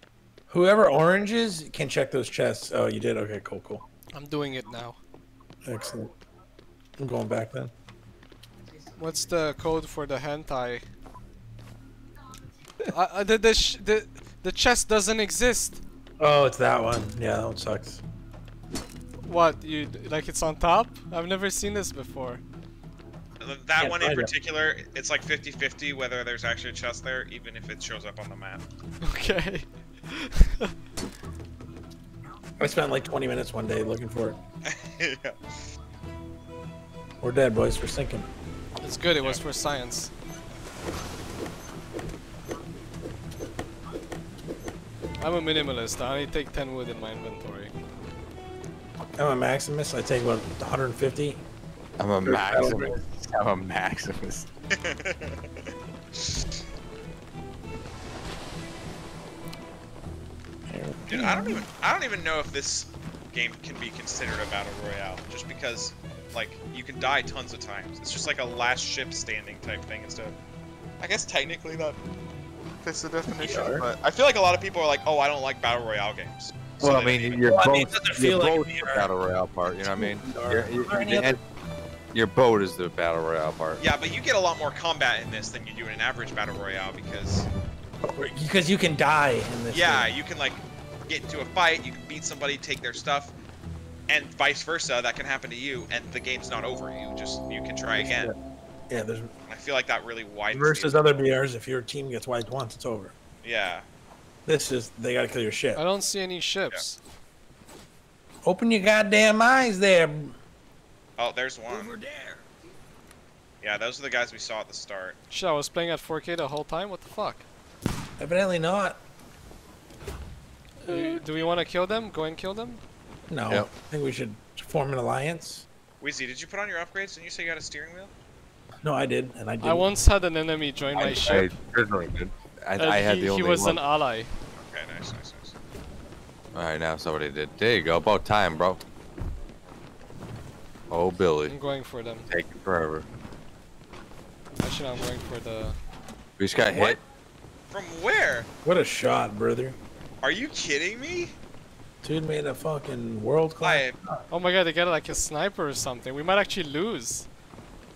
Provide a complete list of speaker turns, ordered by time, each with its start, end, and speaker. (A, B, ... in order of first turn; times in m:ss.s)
0:00.5-0:03.8 A
0:04.1-0:05.0 B
0:05.6-0:06.1 A
0:07.0-0:07.7 A
0:09.0-0:10.8 B
0:12.9-0:15.8 B
0:16.2-0:18.0 A
0:19.2-0:22.4 B
0:23.4-0:28.6 C
0:23.8-0:24.3 A
0:29.0-0:30.7 B
0:32.6-0:34.4 A
0:34.7-0:35.4 C
0:37.2-0:38.3 A
0:38.8-0:40.1 B
0:45.2-0:47.7 B
0:49.2-0:51.4 A
0:52.0-0:54.5 D
0:52.2-0:53.0 A
0:54.7-0:56.4 C
1:00.7-1:01.6 A
1:01.1-1:10.3 C
1:11.0-1:12.0 C
1:12.8-1:17.4 C
1:13.3-1:13.8 A
1:16.8-1:21.4 D
1:17.5-1:19.1 A
1:19.8-1:21.4 A
1:22.1-1:23.8 D
1:23.8-1:27.5 C
1:28.1-1:30.1 A
1:29.7-1:33.3 C
1:34.1-1:38.3 C
1:38.0-1:38.4 A
1:38.9-1:39.3 A
1:39.5-1:41.1 C
1:40.5-1:43.1 A
1:43.4-1:43.9 C
1:44.4-1:45.8 A
1:45.7-1:47.0 B
1:48.4-1:50.4 A
1:51.2-1:52.0 C
1:53.6-1:55.2 C
1:55.3-1:57.4 B
1:58.2-1:59.0 A
2:00.8-2:02.8 B
2:03.3-2:05.6 A
2:06.0-2:08.1 C
2:08.8-2:09.9 A
2:09.6-2:11.5 B
2:11.0-2:13.8 D
2:12.8-2:14.3 B
2:14.6-2:15.5 C
2:16.5-2:18.8 D
2:20.9-2:21.5 D
2:21.5-2:22.3 B
2:22.3-2:23.0 D
2:24.6-2:25.8 B
2:26.4-2:27.0 D
2:26.6-2:27.0 A
2:27.7-2:28.5 C
2:28.6-2:29.8 A
2:30.2-2:31.4 C
2:32.0-2:34.3 A
2:33.6-2:34.0 C
2:34.3-2:37.2 B